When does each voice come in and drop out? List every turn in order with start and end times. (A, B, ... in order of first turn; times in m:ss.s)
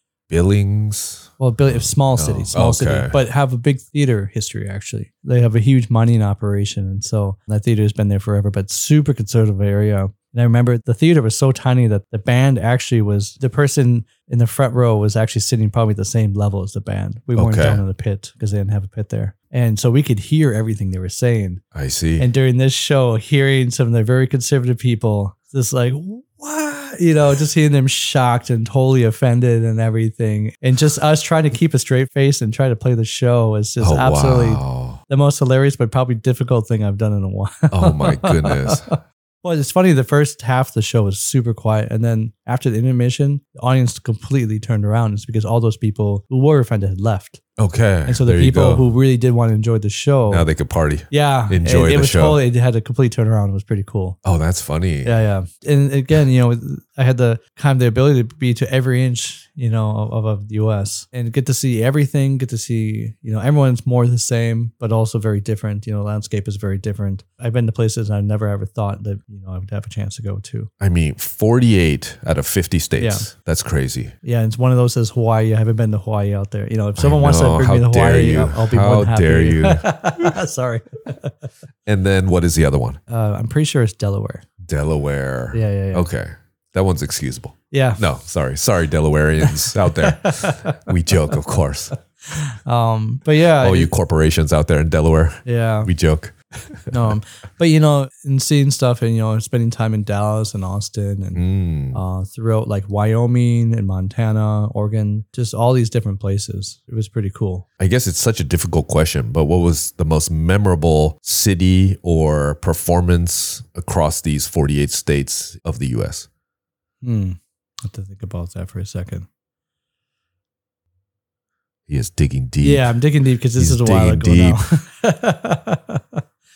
0:00.3-0:03.2 A
0:01.4-0:21.6 B
0:17.4-0:17.8 A
0:21.7-0:22.3 A
0:22.2-0:47.4 B
0:33.8-0:35.0 A
0:37.7-0:38.9 A
0:47.6-0:48.8 A
0:48.1-0:50.5 B
0:50.3-0:52.4 A
0:51.1-0:54.2 B
0:54.2-0:55.1 A
0:55.0-1:10.7 B
1:10.8-1:14.2 A
1:13.0-1:13.3 B
1:14.2-1:21.3 B
1:17.0-1:20.3 A
1:21.9-1:23.0 A
1:23.1-1:24.5 B
1:24.6-1:31.9 A
1:25.5-1:26.1 B
1:27.7-1:28.0 B
1:29.4-1:30.9 B
1:32.3-1:33.9 B
1:33.6-1:37.2 A
1:35.4-1:35.9 B
1:36.9-1:41.4 B
1:41.4-1:42.0 A
1:41.9-1:47.7 B
1:47.8-1:56.3 A
1:57.0-1:59.3 B
2:01.9-2:03.0 A
2:02.6-2:06.2 B
2:03.6-2:04.6 A